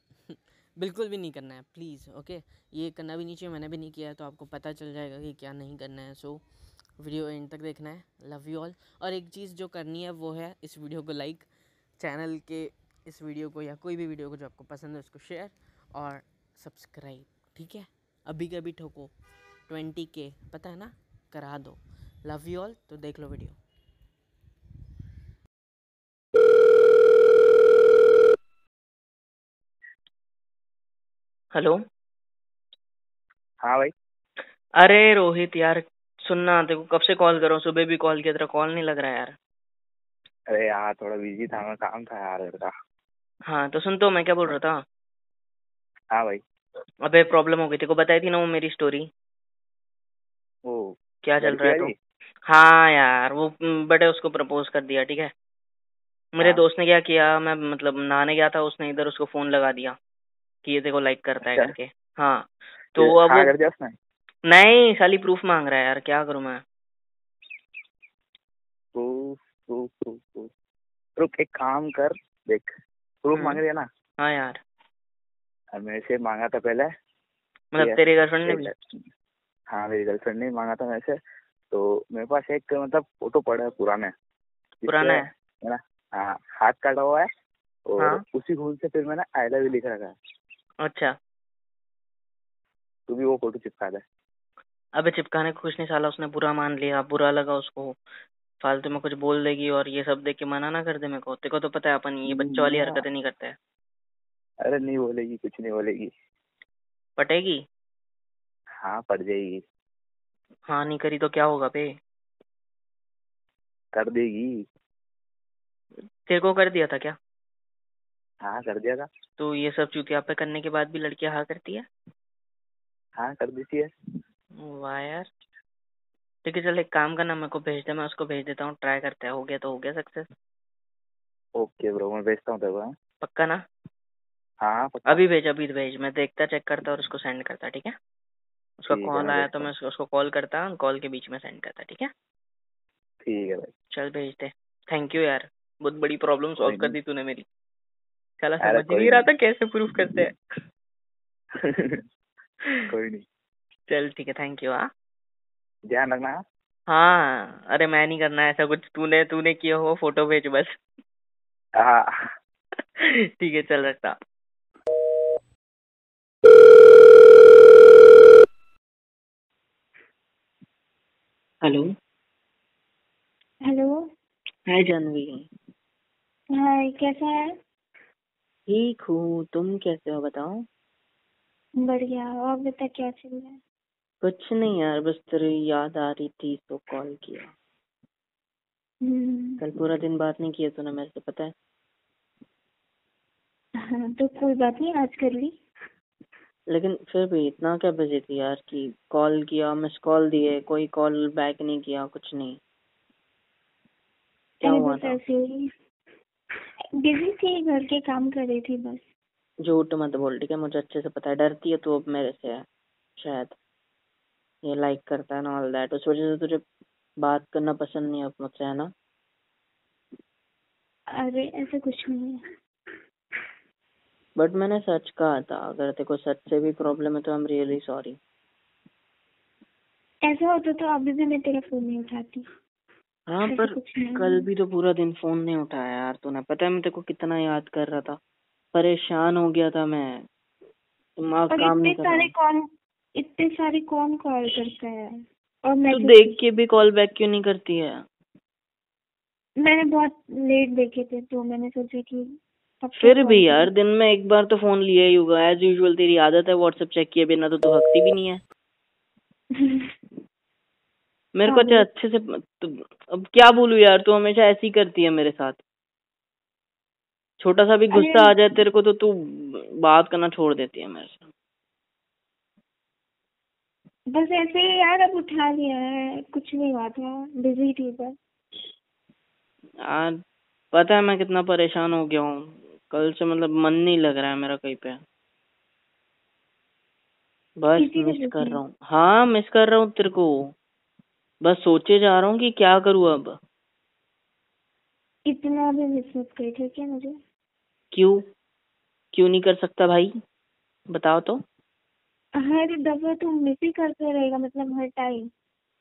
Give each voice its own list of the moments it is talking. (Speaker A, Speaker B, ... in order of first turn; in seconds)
Speaker A: 0.3-6.4, 7.0-19.1, 19.7-23.6
Speaker B: 31.5-31.8, 34.8-39.3, 43.5-44.8, 47.0-49.1, 51.2-51.9, 52.5-55.3, 56.3-60.0, 60.6-63.5, 64.4-66.6, 73.3-73.6, 74.2-74.6, 77.7-78.7, 84.8-85.3, 90.8-91.1, 95.0-98.0, 98.6-103.6, 107.2-107.6, 110.7-111.9, 116.3-117.2, 119.4-121.9, 124.6-125.3, 126.4-130.3, 133.2-133.6, 135.1-137.9, 138.8-142.1, 143.9-147.5, 148.4-150.3, 153.9-154.9, 156.9-160.7, 163.0-164.2, 171.6-171.9, 174.7-175.5, 178.7-180.6, 184.2-187.5, 189.6-191.5, 196.7-202.6, 204.6-205.2, 209.6-212.6, 213.2-213.5, 214.6-216.6, 217.2-218.9, 224.4-228.2, 233.3-238.2, 238.7-240.2, 241.2-242.3, 245.9-247.9, 253.0-258.4, 261.4-265.6, 267.4-271.3, 279.9-280.1, 280.7-285.0, 287.6-290.5, 291.4-293.4, 297.9-298.2, 299.1-300.1, 300.9-301.4
Speaker C: 33.6-33.9, 40.5-42.7, 46.1-46.4, 50.6-51.9, 61.5-61.7, 63.0-63.9, 68.9-70.5, 71.2-72.7, 73.2-73.9, 75.7-76.9, 77.8-78.9, 79.7-81.2, 81.7-84.1, 84.8-87.3, 87.9-90.1, 93.1-94.0, 102.3-103.0, 104.6-106.1, 108.8-109.6, 113.9-114.6, 118.4-119.1, 123.2-123.9, 131.6-132.9, 134.6-135.2, 138.9-139.7, 143.2-143.7, 146.6-146.9, 148.6-149.3, 151.6-152.0, 152.9-153.2, 155.9-156.4, 161.8-162.2
Speaker D: 173.7-173.9, 176.5-177.5, 181.8-183.6, 189.0-189.6, 193.9-195.5, 204.6-205.7, 207.0-209.0, 221.2-222.4, 230.2-232.4, 233.4-234.5, 241.5-245.1, 245.7-246.4, 249.6-252.3, 252.8-253.7, 259.5-259.9, 261.4-261.8, 267.9-268.3, 274.1-278.1, 287.8-288.6, 295.3-297.1, 302.4-305.3